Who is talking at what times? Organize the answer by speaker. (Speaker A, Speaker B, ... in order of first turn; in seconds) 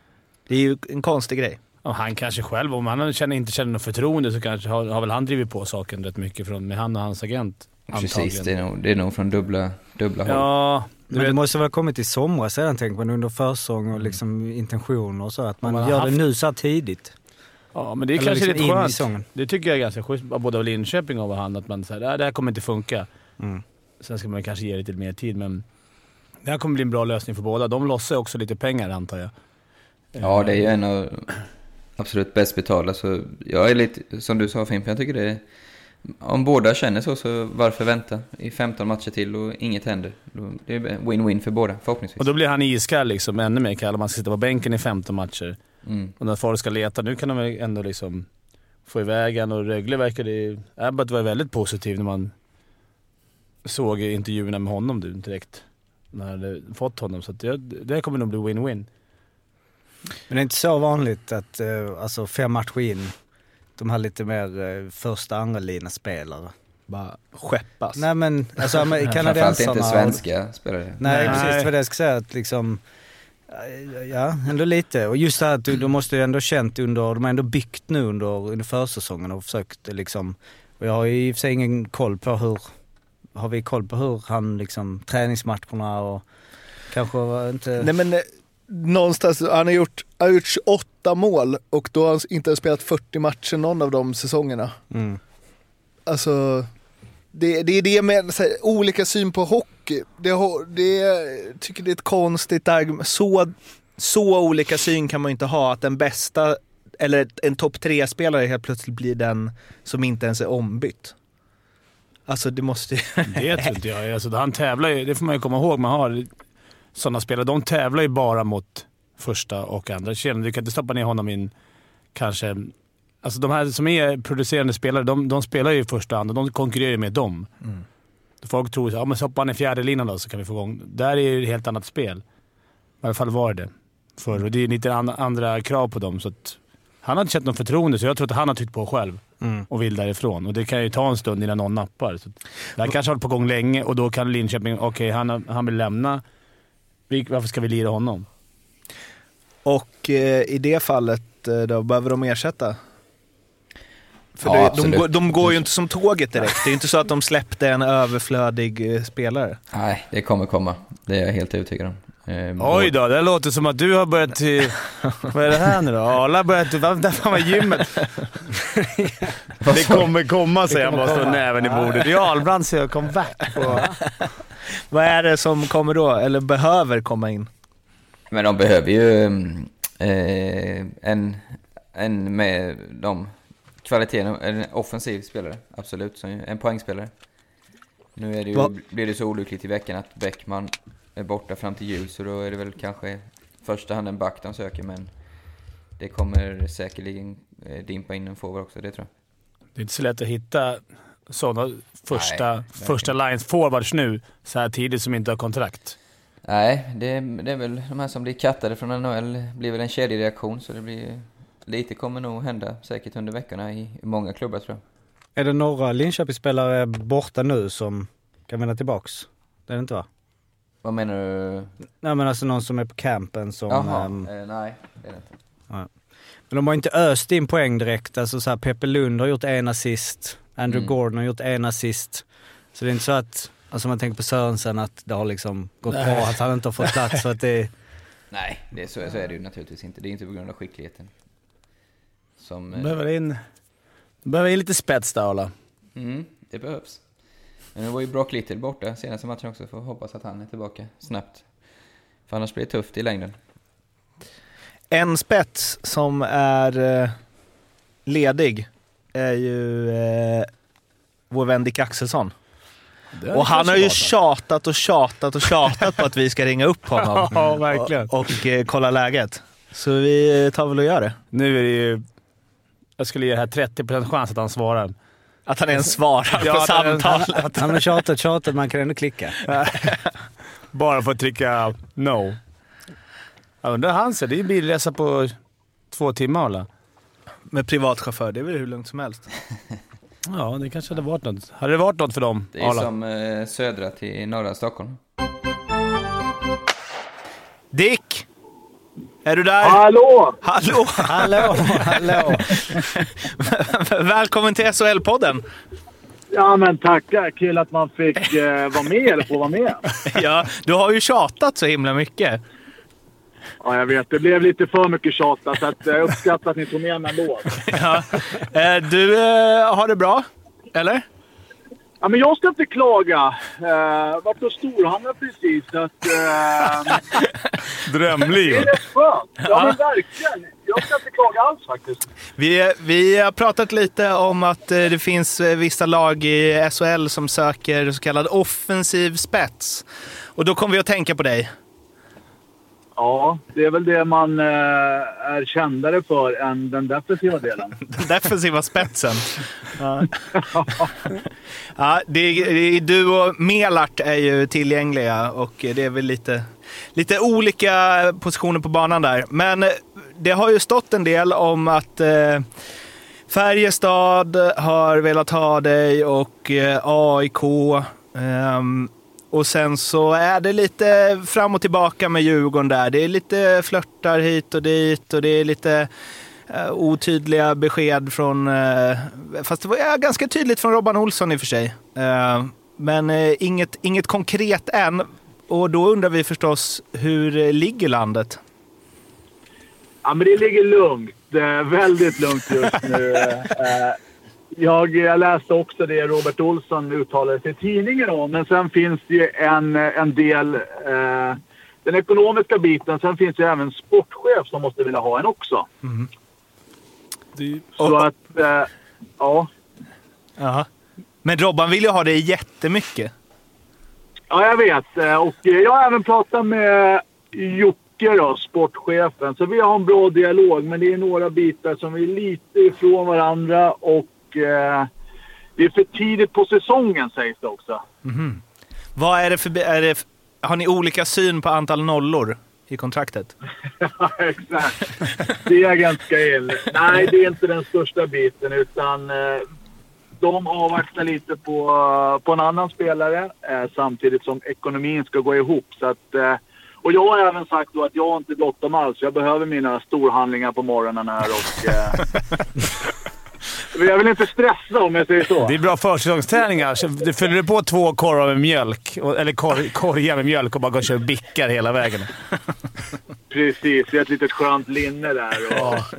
Speaker A: 0.5-1.6, 66.9-68.1, 71.0-71.7, 87.8-94.8, 96.1-96.7, 97.3-111.1, 112.3-113.7, 149.7-152.8, 154.4-159.6, 174.9-177.5, 254.9-257.2, 258.1-260.5, 261.3-262.3, 263.3-271.2, 275.5-277.7, 287.5-289.3, 297.7-298.3, 299.2-299.9, 300.4-305.4, 310.1-312.4, 317.7-321.0, 329.5-329.8, 332.4-341.5, 347.9-350.2, 351.8-362.5, 363.3-375.9, 376.5-388.4, 405.8-406.1, 407.6-408.0, 410.4-410.7, 411.2-413.1, 428.1-428.4, 429.0-433.3
Speaker B: 1.8-8.5, 10.3-11.4, 15.6-16.2, 17.7-23.1, 24.0-25.6, 26.4-29.3, 30.1-30.6, 42.2-45.6, 46.2-48.3, 48.9-52.3, 53.6-58.9, 113.3-116.3, 116.9-121.5, 122.1-127.5, 128.4-132.2, 133.0-146.2, 147.1-148.3, 162.6-168.1, 169.7-173.9, 199.8-206.0, 235.9-236.3, 242.8-243.4, 244.2-245.5, 263.1-264.1, 267.0-268.1, 271.3-272.0, 273.0-274.9, 276.4-277.6, 280.7-282.4, 283.6-285.4, 285.9-286.7, 290.3-292.9, 327.9-328.7, 455.4-462.1, 465.5-465.9
Speaker C: 7.9-10.5, 30.2-31.4, 32.0-35.4, 36.0-42.3, 45.8-46.1, 69.2-71.4, 154.4-155.6, 159.7-162.9, 169.6-170.1, 178.3-187.1, 188.2-195.4, 196.0-199.1, 202.1-203.1, 206.4-214.8, 220.8-221.7, 223.7-225.4, 230.7-230.9, 238.3-241.1, 242.4-243.0, 245.9-251.7, 252.3-253.4, 292.6-295.0
Speaker D: 11.1-17.1, 18.2-19.2, 60.3-63.1, 63.8-66.5, 68.0-70.2, 71.0-72.8, 73.5-82.7, 83.3-86.2, 86.9-87.9, 94.9-95.2, 139.4-139.7, 169.0-169.2, 170.7-172.1, 173.6-174.0, 215.4-220.1, 222.0-224.3, 226.5-237.7, 277.5-279.4, 301.1-302.6
Speaker E: 299.6-300.4, 306.3-309.9, 313.6-317.8, 322.0-327.0, 328.4-332.1, 343.0-347.8, 350.4-350.9, 390.1-394.0, 394.5-405.7, 407.8-409.5, 414.3-424.9, 425.6-427.8, 433.8-434.8, 435.4-439.4, 440.2-452.2, 453.7-455.6, 463.3-465.9